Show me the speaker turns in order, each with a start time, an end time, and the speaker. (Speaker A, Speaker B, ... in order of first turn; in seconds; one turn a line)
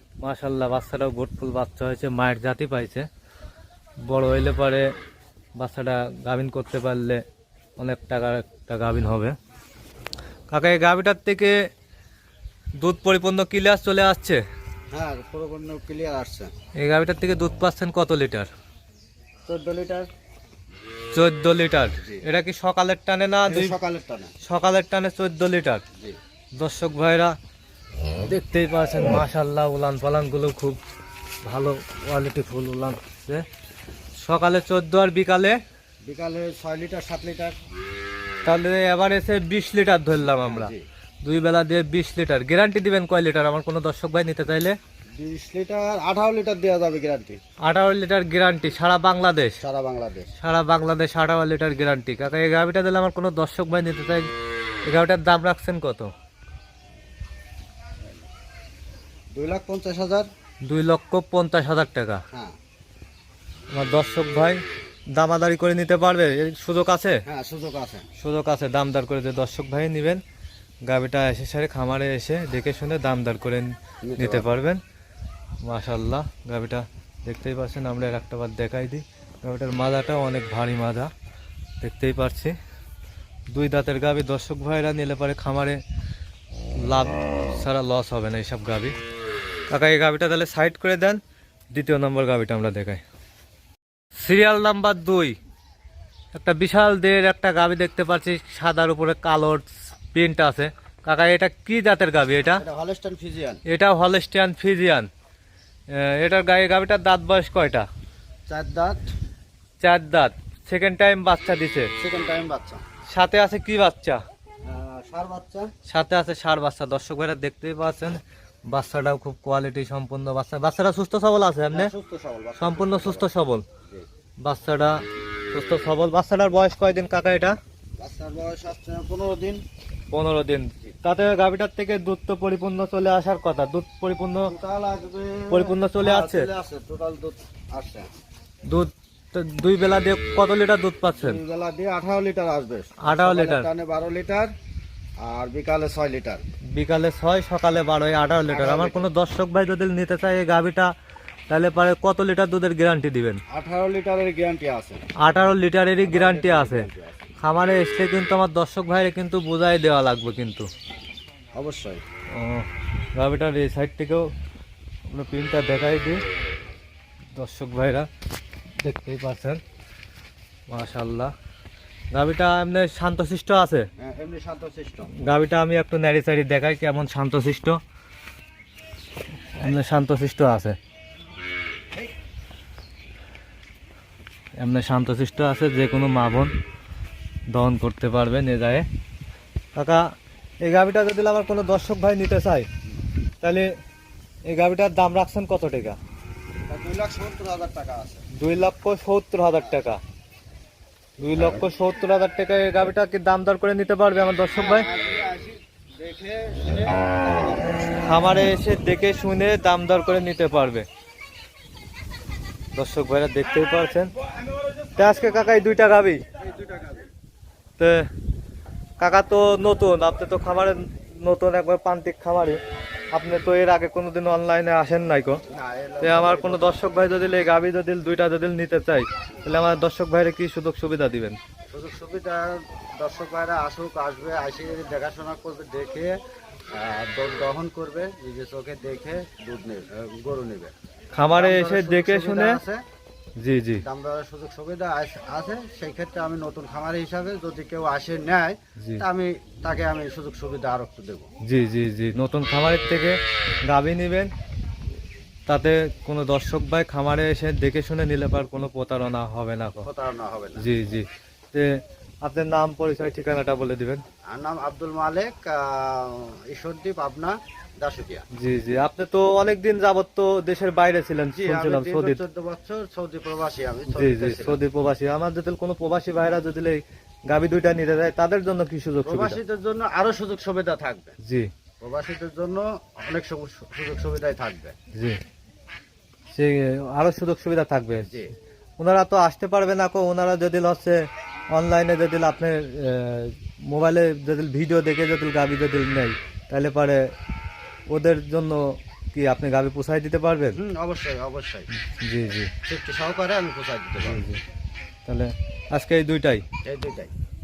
Speaker A: 0.2-3.1
Speaker A: 4.0-4.9
Speaker A: 5.5-7.2
Speaker A: 7.8-9.3
Speaker A: 10.5-11.6
Speaker A: 12.8-14.4
Speaker B: 14.9-16.5
Speaker A: 16.8-18.5
Speaker B: 19.4-20.1
Speaker A: 21.1-23.7
Speaker B: 23.4-24.3
Speaker A: 24.4-25.8
Speaker A: 26.6-27.3
Speaker A: 28.2-30.8
Speaker A: 31.4-33.4
Speaker A: 34.2-35.6
Speaker B: 36.0-37.6
Speaker A: 38.4-40.7
Speaker B: 40.4-40.8
Speaker A: 41.2-44.8
Speaker B: 45.2-47.4
Speaker A: 47.6-49.6
Speaker B: 49.6-50.3
Speaker A: 50.4-54.2
Speaker A: 54.8-56.1
Speaker B: 59.3-60.3
Speaker A: 60.6-62.2
Speaker A: 63.7-64.6
Speaker A: 65.1-67.2
Speaker B: 67.3-68.0
Speaker A: 68.2-70.2
Speaker A: 70.8-74.8
Speaker B: 74.0-74.5
Speaker A: 75.6-81.1
Speaker A: 81.8-82.5
Speaker A: 83.5-85.8
Speaker A: 86.8-88.9
Speaker A: 89.7-91.2
Speaker A: 91.7-93.0
Speaker A: 94.2-95.3
Speaker A: 96.3-102.6
Speaker B: 102.5-103.6
Speaker A: 103.7-105.1
Speaker A: 105.9-107.9
Speaker B: 108.5-109.1
Speaker A: 109.8-111.9
Speaker B: 112.0-112.8
Speaker A: 113.1-114.2
Speaker B: 114.6-115.7
Speaker A: 115.9-121.9
Speaker B: 121.7-123.3
Speaker A: 122.6-123.7
Speaker A: 124.4-125.0
Speaker A: 125.5-127.5
Speaker B: 128.0-129.6
Speaker A: 130.1-134.5
Speaker B: 134.4-138.1
Speaker A: 135.5-136.5
Speaker A: 138.7-141.4
Speaker B: 141.2-144.5
Speaker A: 143.0-143.7
Speaker B: 145.2-146.4
Speaker A: 146.8-150.9
Speaker B: 148.5-149.1
Speaker A: 151.5-153.4
Speaker B: 153.5-155.1
Speaker A: 155.2-156.8
Speaker B: 156.0-157.3
Speaker A: 157.4-160.7
Speaker B: 161.5-162.0
Speaker A: 162.3-164.2
Speaker A: 165.1-166.2
Speaker A: 167.3-168.1
Speaker A: 168.8-169.6
Speaker A: 170.7-171.3
Speaker A: 172.1-173.9
Speaker B: 174.0-175.1
Speaker A: 175.2-177.8
Speaker A: 179.6-180.8
Speaker A: 184.6-186.5
Speaker A: 187.5-188.8
Speaker A: 189.7-190.1
Speaker A: 190.6-192.7
Speaker A: 193.4-193.7
Speaker A: 194.5-196.0
Speaker B: 196.7-198.2
Speaker A: 198.3-200.0
Speaker A: 201.2-204.9
Speaker B: 201.3-201.6
Speaker B: 204.5-207.8
Speaker A: 208.1-210.8
Speaker A: 212.7-214.1
Speaker A: 214.9-216.2
Speaker B: 216.4-217.1
Speaker A: 217.8-218.1
Speaker A: 219.0-222.6
Speaker A: 223.1-225.4
Speaker B: 225.5-226.8
Speaker A: 226.0-231.4
Speaker B: 231.7-236.1
Speaker B: 236.7-240.7
Speaker A: 241.1-242.6
Speaker B: 241.3-242.8
Speaker A: 243.4-243.8
Speaker B: 243.8-251.3
Speaker A: 251.4-254.3
Speaker A: 255.5-259.9
Speaker B: 259.8-260.7
Speaker A: 260.6-264.0
Speaker B: 264.3-268.2
Speaker A: 268.3-272.2
Speaker B: 271.3-274.6
Speaker A: 273.9-279.4
Speaker B: 279.0-281.1
Speaker A: 281.2-281.5
Speaker B: 281.8-284.7
Speaker A: 284.9-285.2
Speaker A: 286.3-288.1
Speaker A: 288.8-291.0
Speaker A: 291.5-297.0
Speaker A: 297.9-300.6
Speaker B: 300.5-301.7
Speaker A: 301.9-302.5
Speaker B: 302.6-304.3
Speaker A: 304.0-304.4
Speaker A: 305.1-306.4
Speaker B: 306.6-307.1